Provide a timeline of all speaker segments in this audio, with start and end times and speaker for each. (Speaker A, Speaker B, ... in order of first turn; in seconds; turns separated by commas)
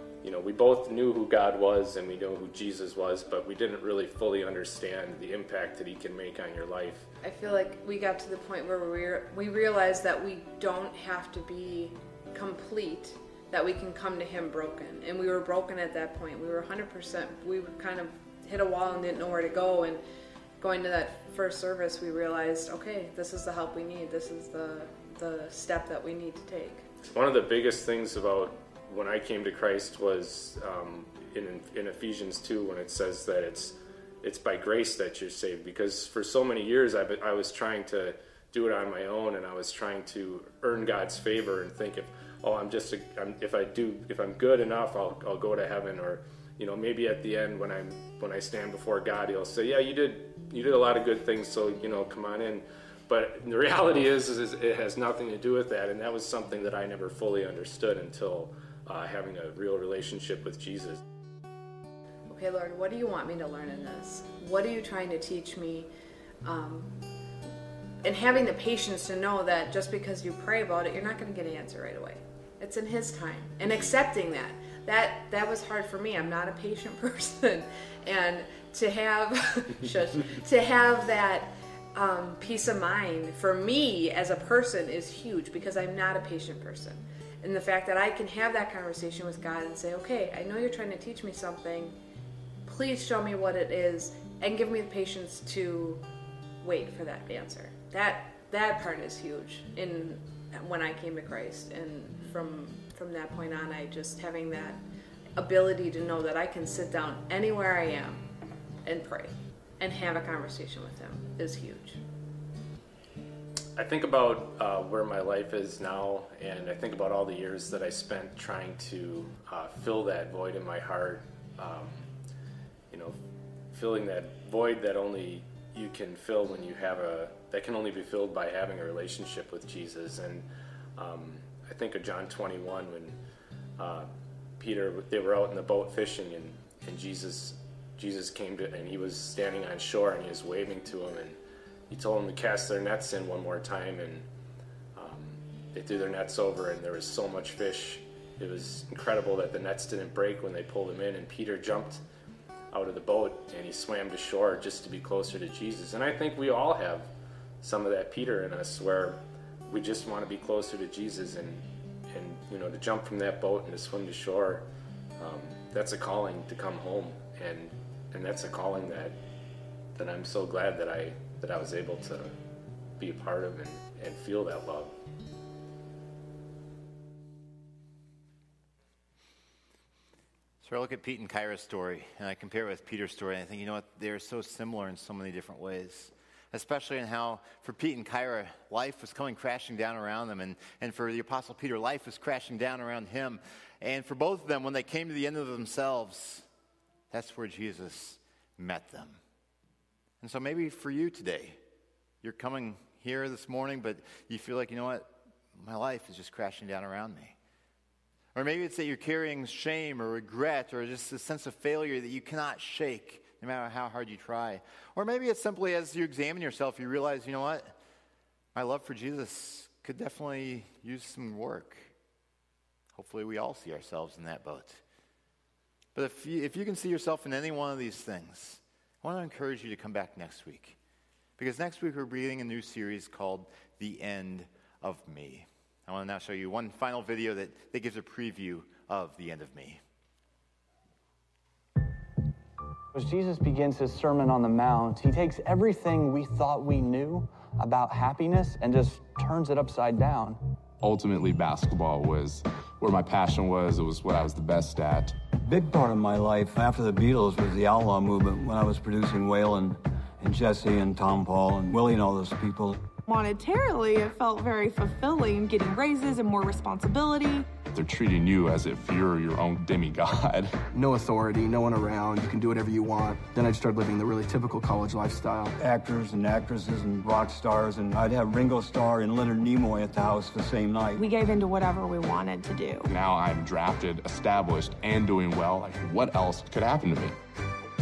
Speaker A: 0.2-7.1, Speaker B: 7.2-20.0, Speaker B: 20.6-26.9, Speaker A: 27.1-61.0, Speaker B: 62.3-65.9, Speaker B: 66.4-67.0, Speaker B: 68.0-92.0, Speaker B: 92.6-96.0, Speaker B: 96.6-104.8, Speaker B: 105.4-108.2, Speaker B: 108.8-112.0, Speaker A: 113.8-122.1, Speaker A: 122.9-123.2, Speaker A: 123.7-133.2, Speaker A: 133.8-144.3, Speaker A: 144.9-152.0, Speaker A: 152.7-164.7, Speaker A: 165.2-169.2, Speaker A: 169.9-172.3, Speaker A: 173.0-174.9, Speaker C: 180.6-196.4, Speaker C: 197.1-199.2, Speaker C: 200.2-201.6, Speaker C: 202.2-207.3, Speaker C: 208.3-217.8, Speaker C: 218.5-221.9, Speaker C: 222.9-224.8, Speaker C: 225.9-230.8, Speaker C: 231.4-239.8, Speaker D: 242.9-250.4, Speaker E: 250.8-255.2, Speaker F: 255.4-262.8, Speaker G: 263.1-267.5, Speaker E: 267.6-270.6, Speaker H: 270.7-275.5, Speaker F: 275.6-281.1, Speaker G: 281.0-282.9, Speaker E: 282.9-287.1